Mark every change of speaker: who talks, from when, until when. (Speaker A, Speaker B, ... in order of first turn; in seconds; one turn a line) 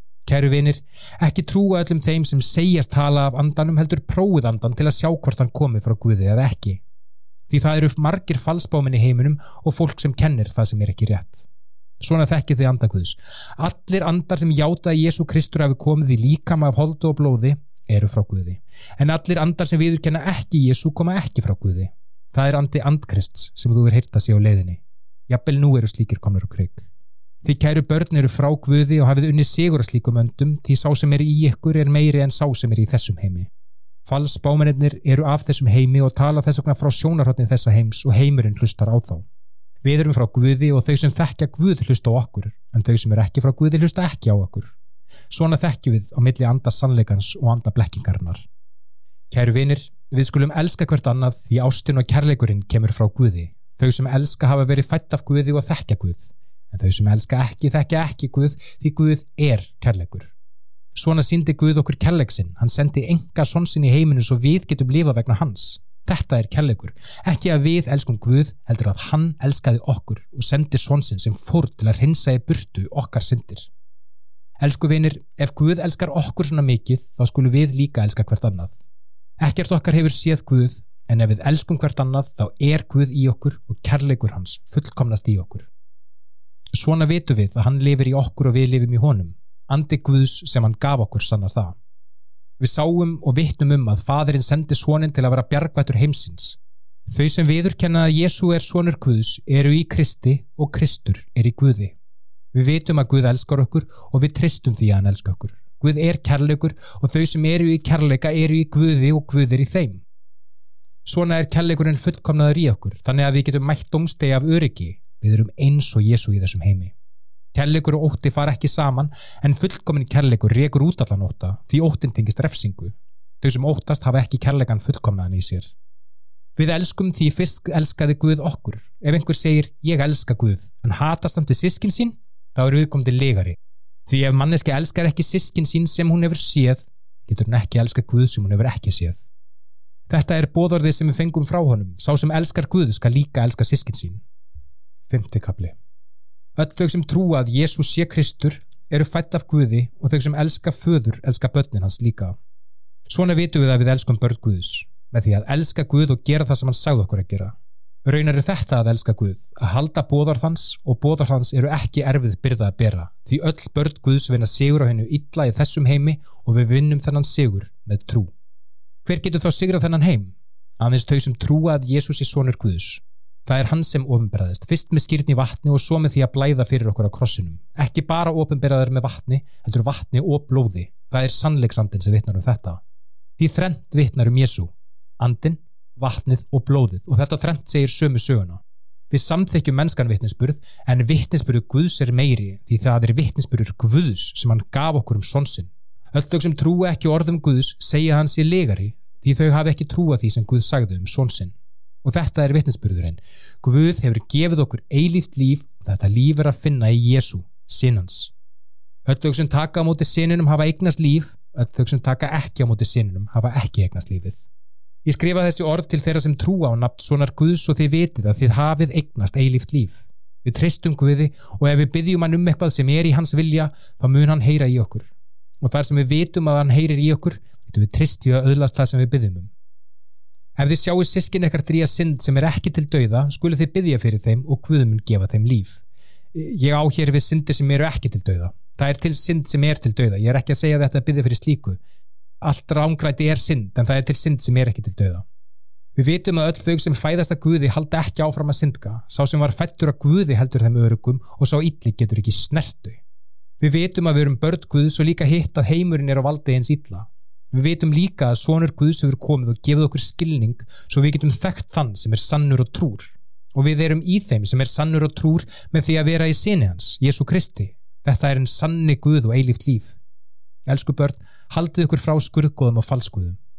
Speaker A: 0.2-6.8
Speaker A: 7.5-11.5
Speaker A: 12.0-26.9
Speaker A: 27.4-33.5
Speaker A: 34.0-39.3
Speaker A: 39.8-44.7
Speaker A: 45.3-48.5
Speaker A: 49.3-60.3
Speaker A: 60.9-73.7
Speaker A: 74.6-78.7
Speaker A: 79.4-85.7
Speaker A: 86.7-91.8
Speaker A: 92.6-102.0
Speaker A: 102.5-110.0
Speaker A: 111.0-116.9
Speaker A: 117.5-125.7
Speaker A: 126.5-133.6
Speaker A: 134.1-139.2
Speaker A: 140.1-144.2
Speaker A: 145.1-145.7
Speaker A: 146.6-152.4
Speaker A: 153.1-168.3
Speaker A: 169.0-182.8
Speaker A: 183.4-208.3
Speaker A: 209.1-214.4
Speaker A: 215.0-225.1
Speaker A: 225.6-229.5
Speaker A: 230.6-235.8
Speaker A: 236.3-241.8
Speaker A: 242.4-245.2
Speaker A: 245.9-253.0
Speaker A: 253.6-269.9
Speaker A: 270.6-273.4